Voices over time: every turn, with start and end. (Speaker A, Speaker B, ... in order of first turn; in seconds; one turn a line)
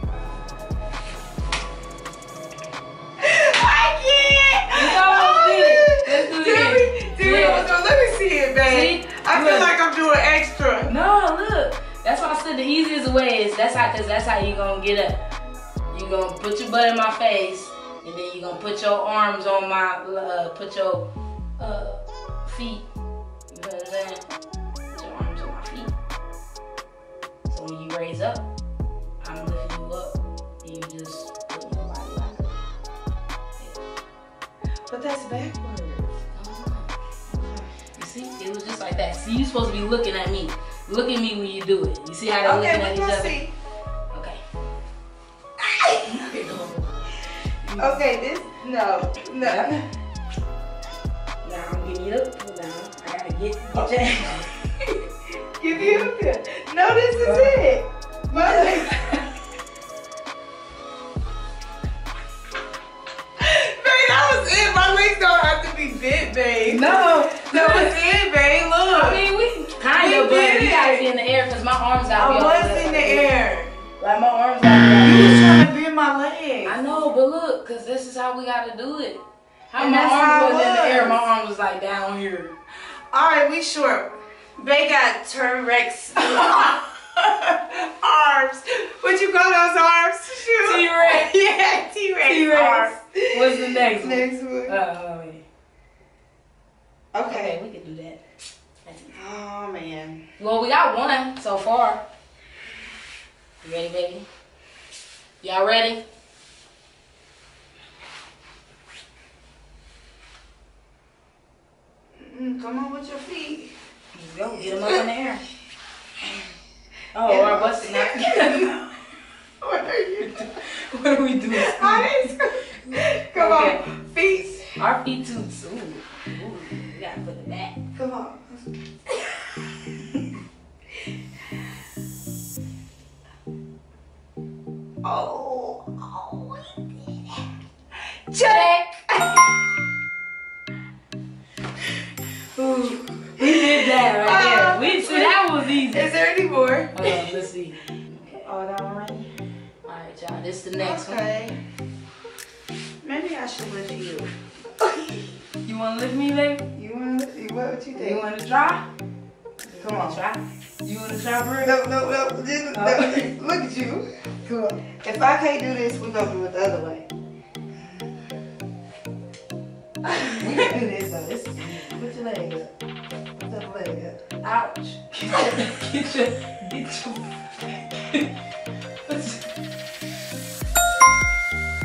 Speaker A: 3.2-10.9
Speaker B: 4.7-7.7
Speaker B: 8.6-9.7
Speaker B: 10.9-15.2
Speaker B: 15.9-22.9
Speaker B: 23.5-24.2
Speaker B: 24.9-25.9
Speaker B: 27.5-28.4
Speaker B: 29.2-32.5
Speaker A: 34.9-36.1
Speaker B: 36.3-36.9
Speaker A: 37.3-37.7
Speaker B: 38.0-43.3
Speaker A: 42.4-43.5
Speaker B: 44.1-44.4
Speaker A: 45.7-46.0
Speaker B: 46.0-47.0
Speaker B: 47.6-48.0
Speaker A: 47.8-49.8
Speaker B: 49.4-49.8
Speaker B: 51.4-54.6
Speaker A: 55.6-59.2
Speaker B: 55.7-56.1
Speaker B: 57.2-57.6
Speaker B: 58.3-59.2
Speaker A: 63.4-69.2
Speaker B: 66.7-68.1
Speaker B: 68.9-73.3
Speaker A: 69.9-71.1
Speaker A: 72.1-73.8
Speaker B: 74.0-75.6
Speaker A: 74.7-76.8
Speaker B: 76.6-82.5
Speaker A: 79.7-81.2
Speaker A: 83.1-94.8
Speaker B: 86.3-86.7
Speaker B: 90.6-91.3
Speaker B: 92.2-95.4
Speaker A: 97.1-97.6
Speaker B: 97.2-98.2
Speaker B: 98.8-99.1
Speaker A: 99.1-100.2
Speaker B: 100.4-102.0
Speaker B: 103.6-104.2
Speaker B: 105.4-106.0
Speaker A: 112.2-113.7
Speaker B: 114.1-115.4
Speaker A: 114.6-115.0
Speaker B: 117.1-118.8
Speaker A: 117.2-118.9
Speaker A: 119.6-120.5
Speaker B: 120.2-123.8
Speaker A: 121.5-124.8
Speaker B: 124.8-127.8
Speaker A: 127.9-129.5
Speaker A: 135.0-137.4
Speaker A: 138.3-139.7
Speaker B: 138.4-138.9
Speaker A: 142.6-147.3
Speaker B: 143.4-146.1
Speaker B: 146.9-148.5
Speaker A: 148.4-149.3
Speaker B: 149.8-151.3
Speaker A: 150.8-151.6
Speaker A: 153.0-155.2
Speaker B: 155.6-156.6
Speaker A: 156.7-158.3
Speaker B: 157.9-158.8
Speaker B: 159.6-161.7
Speaker A: 159.8-160.2
Speaker A: 161.6-167.1
Speaker B: 162.7-163.3
Speaker B: 170.1-170.8
Speaker A: 170.3-172.7
Speaker B: 171.6-172.0
Speaker A: 173.4-174.2
Speaker B: 174.4-178.3
Speaker B: 179.1-179.5